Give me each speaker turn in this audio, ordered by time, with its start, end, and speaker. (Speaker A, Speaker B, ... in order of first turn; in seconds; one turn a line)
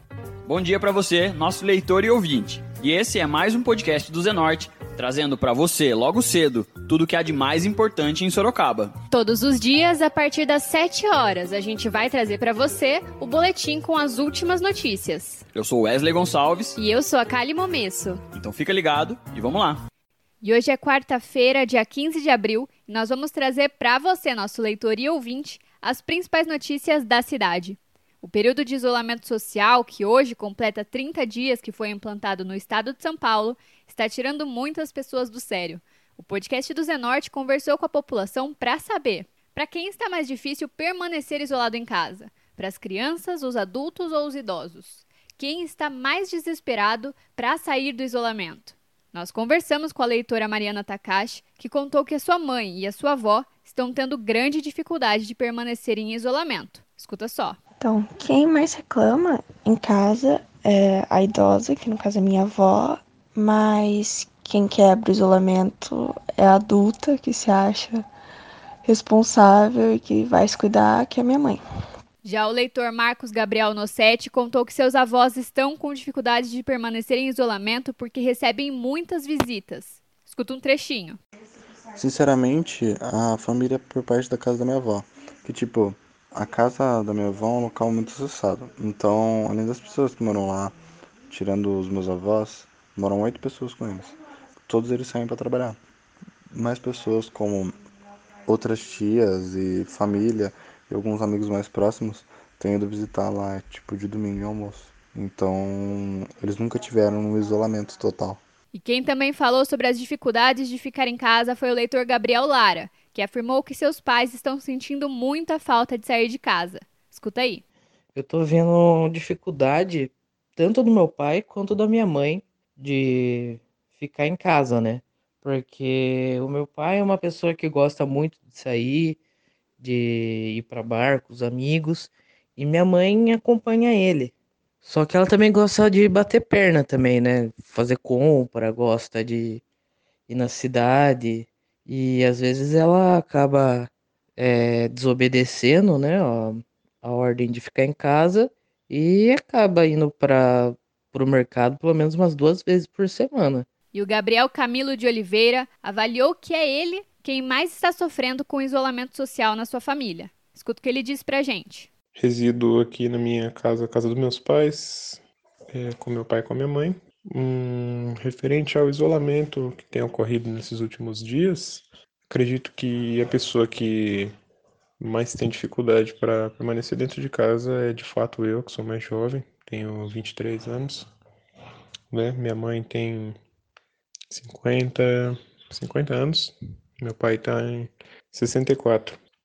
Speaker A: 0.5-8.9
Speaker B: 9.1-15.4
Speaker A: 15.5-16.8
Speaker B: 16.8-18.2
Speaker A: 18.3-19.8
Speaker B: 20.4-57.6
Speaker C: 57.8-68.0
Speaker C: 68.8-71.6
Speaker B: 72.2-81.2
Speaker D: 82.0-90.7
Speaker D: 91.3-94.1
Speaker D: 94.7-95.8
Speaker D: 96.5-97.8
Speaker D: 98.5-108.4
Speaker B: 108.7-117.6
Speaker E: 118.1-129.2
Speaker E: 129.8-134.3
Speaker E: 134.8-139.6
Speaker E: 140.3-153.7
Speaker B: 153.9-161.9
Speaker F: 162.1-174.3
Speaker F: 175.0-181.1
Speaker F: 182.1-183.4
Speaker F: 184.3-189.2